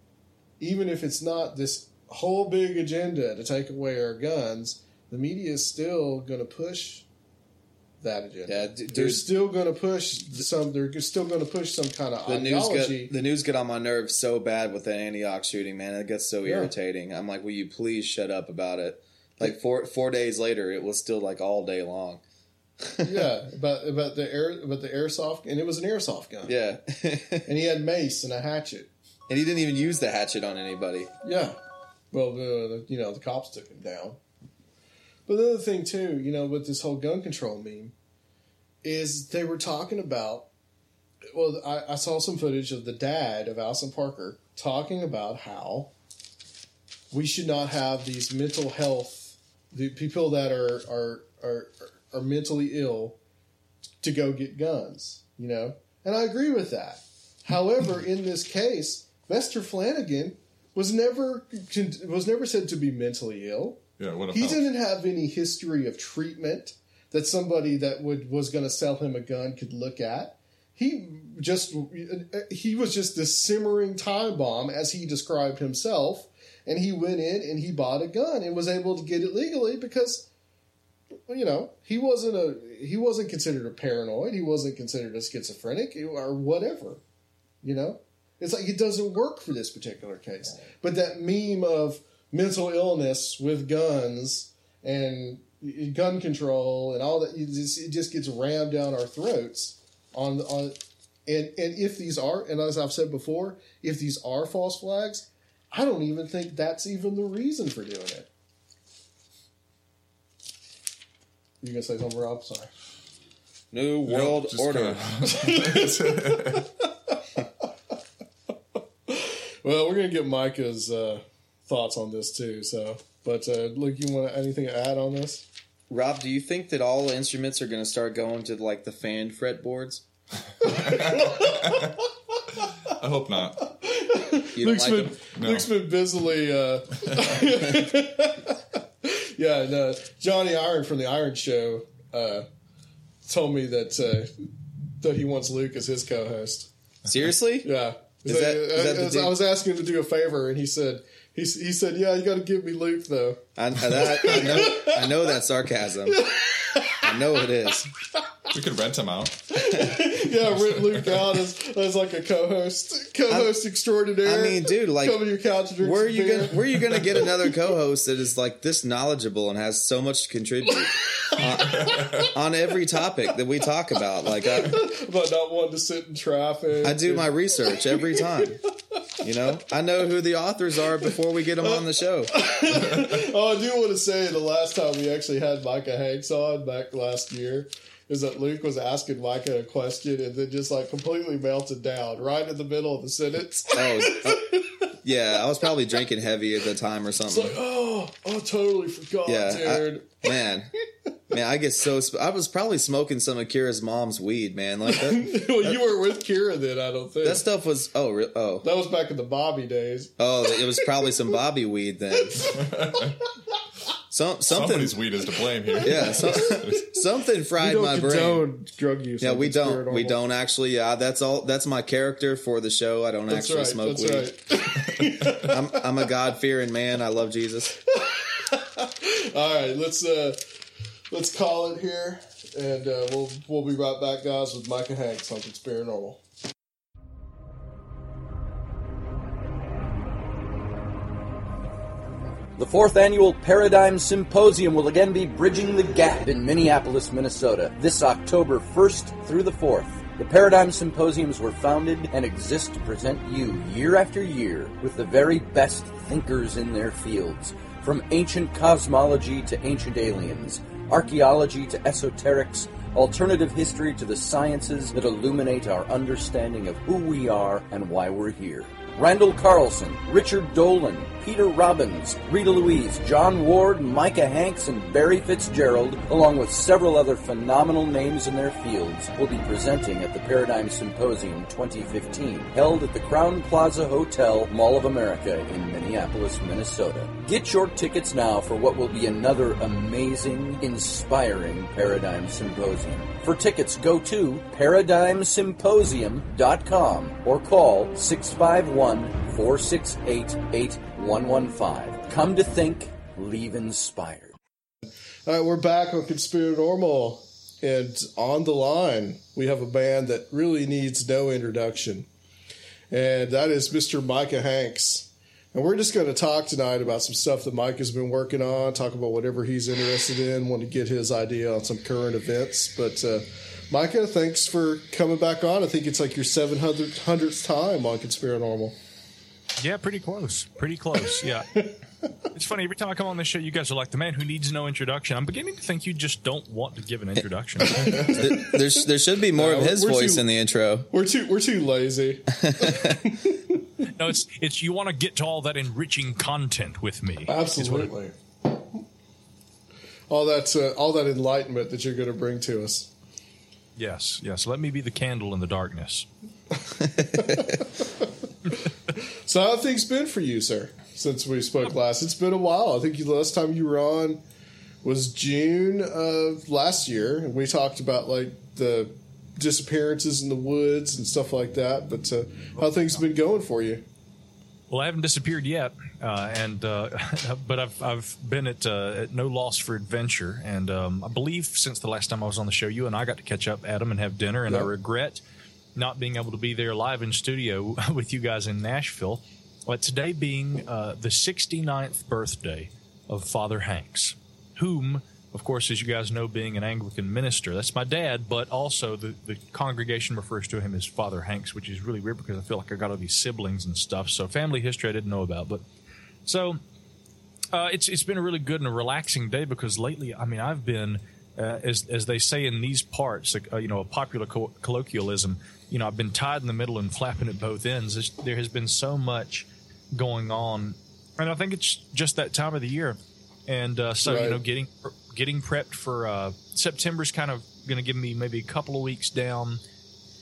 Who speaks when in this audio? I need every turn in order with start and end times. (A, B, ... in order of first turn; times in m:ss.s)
0:00.6-0:07.0 A
0:08.0-0:13.1 A
0:08.5-0:09.3 B
0:12.2-0:22.2 B
0:16.4-0:16.7 A
0:22.8-0:23.2 B
0:23.0-0:26.5 A
0:26.4-0:27.5 B
0:27.4-0:28.9 A
0:29.3-0:31.1 B
0:31.2-0:31.6 A
0:32.1-0:34.2 A
0:35.3-0:37.9 A
0:38.8-0:40.5 A
0:41.3-0:45.9 A
0:47.1-0:53.2 A
0:54.0-1:03.8 A
1:04.0-1:04.7 C
1:04.3-1:20.2 A
1:21.3-1:27.0 A
1:27.6-1:48.3 A
1:51.6-1:52.7 A
1:53.7-1:55.0 B
1:54.1-1:56.6 C
1:55.3-1:56.6 A
1:59.1-2:05.4 A
2:05.9-2:10.0 B
2:10.6-2:12.0 C
2:10.6-2:11.9 A
2:12.8-2:13.7 C
2:13.8-2:22.5 A
2:14.6-2:15.2 B
2:15.4-2:15.7 C
2:23.2-2:24.3 A
2:25.0-2:26.7 A
2:27.0-2:27.7 B
2:27.6-2:35.3 A
2:28.2-2:29.4 B
2:33.6-2:36.2 B
2:36.1-2:37.0 A
2:37.0-2:37.9 B
2:38.5-2:39.7 C
2:39.6-2:47.6 A
2:40.5-2:41.4 C
2:44.2-2:45.2 B
2:45.8-2:54.8 B
2:51.2-2:52.2 A
2:51.7-2:52.2 C
2:54.3-2:58.5 A
2:56.8-2:58.6 B
2:59.2-3:02.3 B
3:01.6-3:14.7 A
3:13.7-3:17.6 B
3:17.3-3:20.2 A
3:19.2-3:20.7 B
3:21.3-3:25.8 B
3:24.9-3:27.4 A
3:27.2-3:28.6 B
3:28.6-3:31.1 A
3:30.2-3:32.5 B
3:32.4-3:33.2 C
3:34.1-3:35.0 B
3:34.5-3:36.8 C
3:35.8-3:36.8 A
3:35.8-3:38.5 B
3:37.6-3:40.2 A
3:39.2-3:44.3 B
3:43.3-3:45.9 A
3:45.4-3:47.7 B
3:47.9-3:50.4 A
3:51.1-3:56.2 A
4:02.6-5:04.3 D
5:05.2-5:12.1 A
5:12.9-5:28.7 A
5:29.6-5:31.7 E
5:32.3-5:38.1 E
5:37.8-5:40.2 A
5:38.0-5:40.9 B
5:40.9-5:43.5 A
5:42.4-5:43.0 B
5:44.0-5:47.9 E
5:47.3-5:48.1 A
5:50.1-5:52.9 A
5:53.8-5:56.1 E
5:57.1-5:57.6 A
5:59.2-6:04.2 A
6:04.8-6:13.8 A
6:14.7-6:25.2 E
6:25.7-6:45.6 E
6:46.2-6:46.6 E
6:47.5-7:09.6 E
7:04.0-7:04.4 A